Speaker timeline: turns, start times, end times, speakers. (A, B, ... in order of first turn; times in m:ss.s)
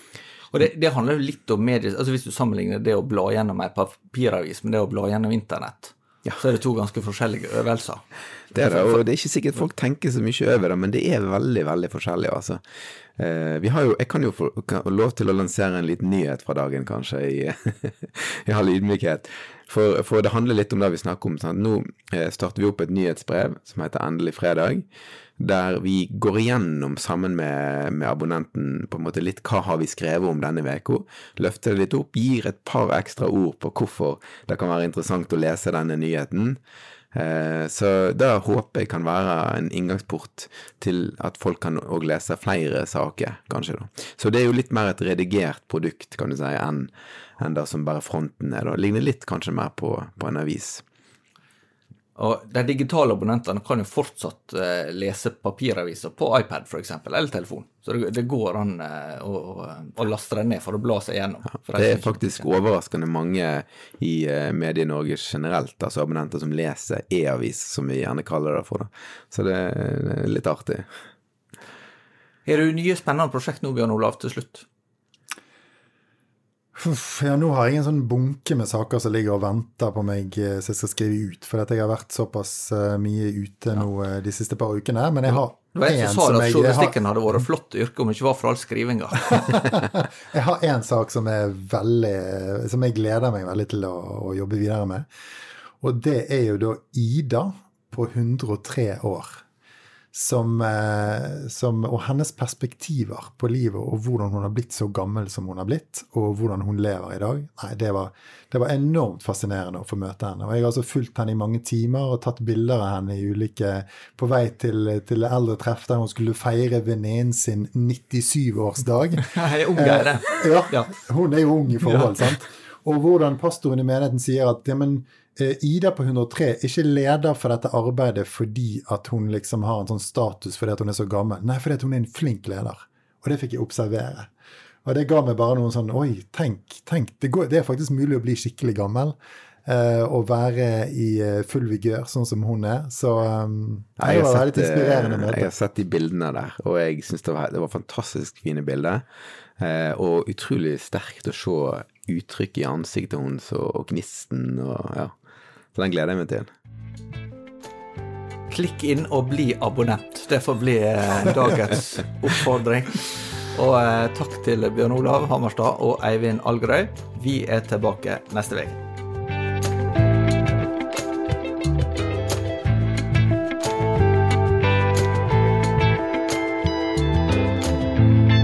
0:00.5-0:08.0 A
0:08.5-0:12.6 B
0:08.6-0:09.0 A
0:13.2-0:24.9 B
0:25.4-0:36.6 B
0:37.1-0:50.8 B
0:52.2-1:02.5 A
1:01.8-1:10.9 B
1:12.5-1:14.7 A
1:16.8-1:27.0 C
1:25.3-1:29.6 A
1:29.3-1:35.1 C
1:35.8-1:39.4 C
1:40.1-2:14.3 C
1:59.3-2:00.9 A
2:01.8-2:02.4 A
2:14.8-2:25.5 C
2:24.0-2:29.0 B
2:29.6-2:35.1 B
2:35.8-2:36.5 B
2:38.5-2:48.8 A